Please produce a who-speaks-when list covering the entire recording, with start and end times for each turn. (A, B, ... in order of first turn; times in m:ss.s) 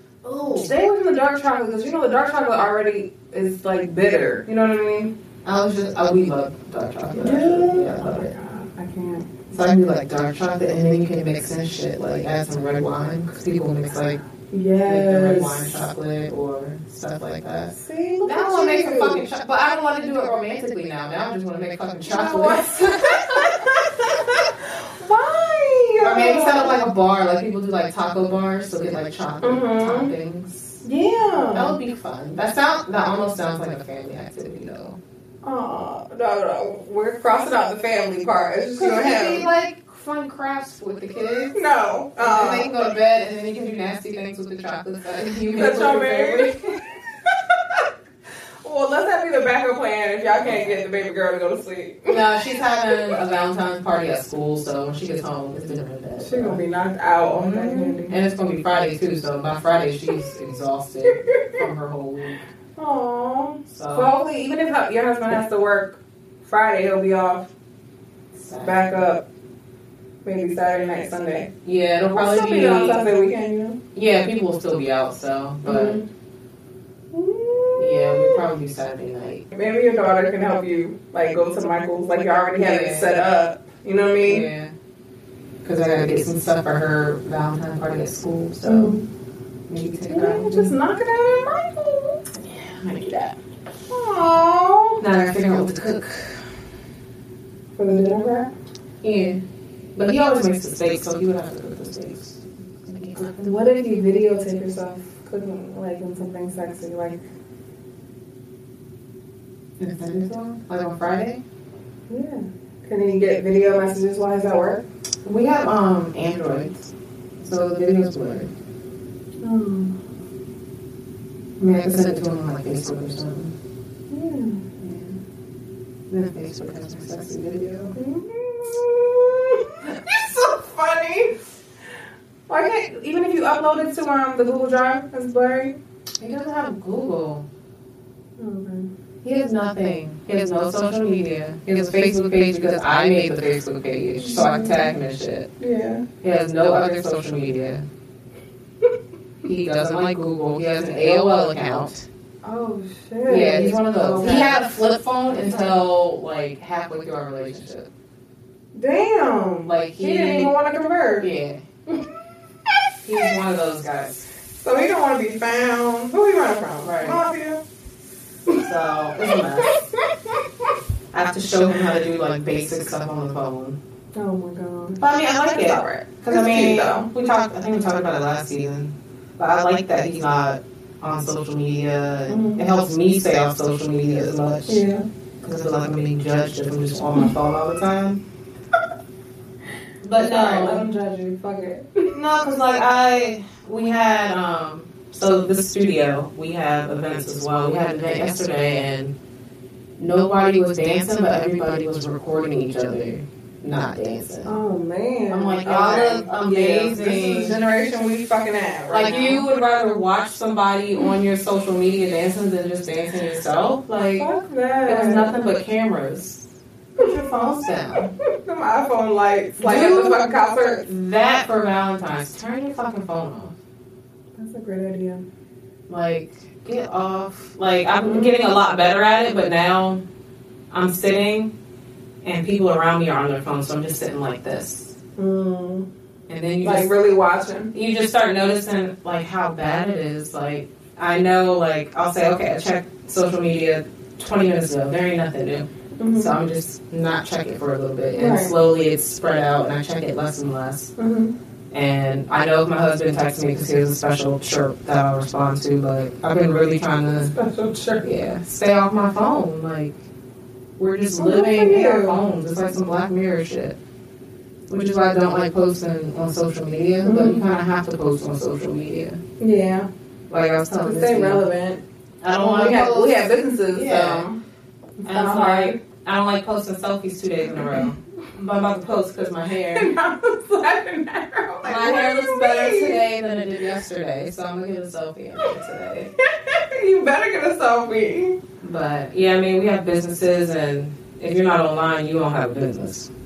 0:00.2-0:00.7 A
0:00.6-0:05.1 B
0:05.4-0:08.3 A
0:07.2-0:09.3 B
0:09.5-0:14.2 A
0:14.5-0:15.7 B
0:14.8-0:23.4 A
0:17.7-0:19.3 B
0:22.0-0:26.8 B
0:26.0-0:30.8 A
0:29.4-0:30.1 B
0:30.8-0:31.8 B
0:31.4-0:35.0 A
0:35.4-0:39.5 B
0:38.8-0:41.6 A
0:41.5-0:42.7 B
0:42.2-0:46.6 A
0:45.5-0:47.9 B
0:48.6-0:52.2 B
0:50.4-0:50.8 A
0:52.1-0:56.6 A
0:56.2-0:58.2 B
0:57.3-1:02.4 A
1:01.1-1:01.7 B
1:02.8-1:07.5 B
1:03.7-1:04.1 A
1:08.4-1:08.8 A
1:08.6-1:09.3 B
1:10.2-1:11.5 B
1:11.6-1:13.1 A
1:12.1-1:13.8 B
1:13.9-1:16.0 A
1:15.6-1:16.0 B
1:17.1-1:18.4 B
1:17.8-1:19.4 A
1:19.5-1:24.5 B
1:22.6-1:23.1 A
1:24.2-1:24.7 A
1:25.6-1:29.0 A
1:28.6-1:29.0 B
1:29.7-1:30.8 A
1:30.1-1:32.3 B
1:32.4-1:33.4 A
1:33.9-1:35.0 B
1:35.0-1:36.4 A
1:37.8-1:38.5 B
1:39.0-1:39.4 A
1:40.0-1:43.6 A
1:43.4-1:47.2 B
1:49.8-1:51.4 A
1:52.1-1:54.9 B
1:55.2-1:58.5 A
1:59.4-2:00.0 B
2:01.6-2:03.6 A
2:04.1-2:04.6 B
2:04.8-2:05.2 A
2:06.1-2:08.0 A
2:08.0-2:11.4 B
2:12.5-2:15.8 B
2:16.2-2:17.5 A
2:18.4-2:18.9 B
2:19.2-2:25.5 A
2:24.2-2:24.9 B
2:25.6-2:26.1 B
2:26.2-2:27.9 A
2:29.4-2:32.1 A
2:32.4-2:34.6 B
2:33.3-2:37.9 A
2:38.7-2:41.3 B
2:39.6-2:40.5 A
2:41.2-2:41.6 A
2:43.0-2:44.3 A
2:44.6-2:47.6 B
2:46.8-2:47.2 A
2:48.5-2:49.9 A
2:49.3-2:50.7 B
2:51.1-2:53.8 A
2:54.2-2:57.1 B
2:55.0-3:04.8 A
3:02.3-3:02.6 B
3:04.7-3:05.1 B
3:05.4-3:08.2 A
3:10.0-3:10.9 A
3:10.2-3:12.2 B
3:12.1-3:19.2 A
3:20.0-3:24.6 A
3:24.4-3:29.5 B
3:25.3-3:27.6 A
3:28.9-3:34.3 A
3:34.2-3:35.3 B
3:34.8-3:38.1 A
3:38.2-3:40.9 B
3:39.6-3:43.6 A
3:44.4-3:45.2 B
3:45.9-3:50.0 A
3:48.0-3:48.4 B
3:50.7-3:51.5 A
3:52.2-3:55.0 A
3:55.2-3:55.9 B
3:56.3-3:56.9 A
3:56.6-3:57.7 B
3:57.7-4:10.9 A
4:06.0-4:06.4 B
4:08.1-4:08.5 B
4:11.0-4:11.3 B
4:11.7-4:17.4 A
4:17.3-4:18.0 B
4:18.0-4:20.0 A
4:20.8-4:23.8 A
4:21.2-4:22.2 B
4:24.7-4:29.2 A
4:27.0-4:27.4 B
4:29.4-4:29.9 B
4:30.3-4:31.5 A
4:30.8-4:34.4 B
4:32.2-4:34.3 A
4:35.0-4:35.8 B
4:35.1-4:39.9 A
4:37.6-4:37.9 B
4:39.7-4:43.0 B
4:41.6-4:46.1 A
4:46.2-4:48.4 B
4:48.6-4:53.1 A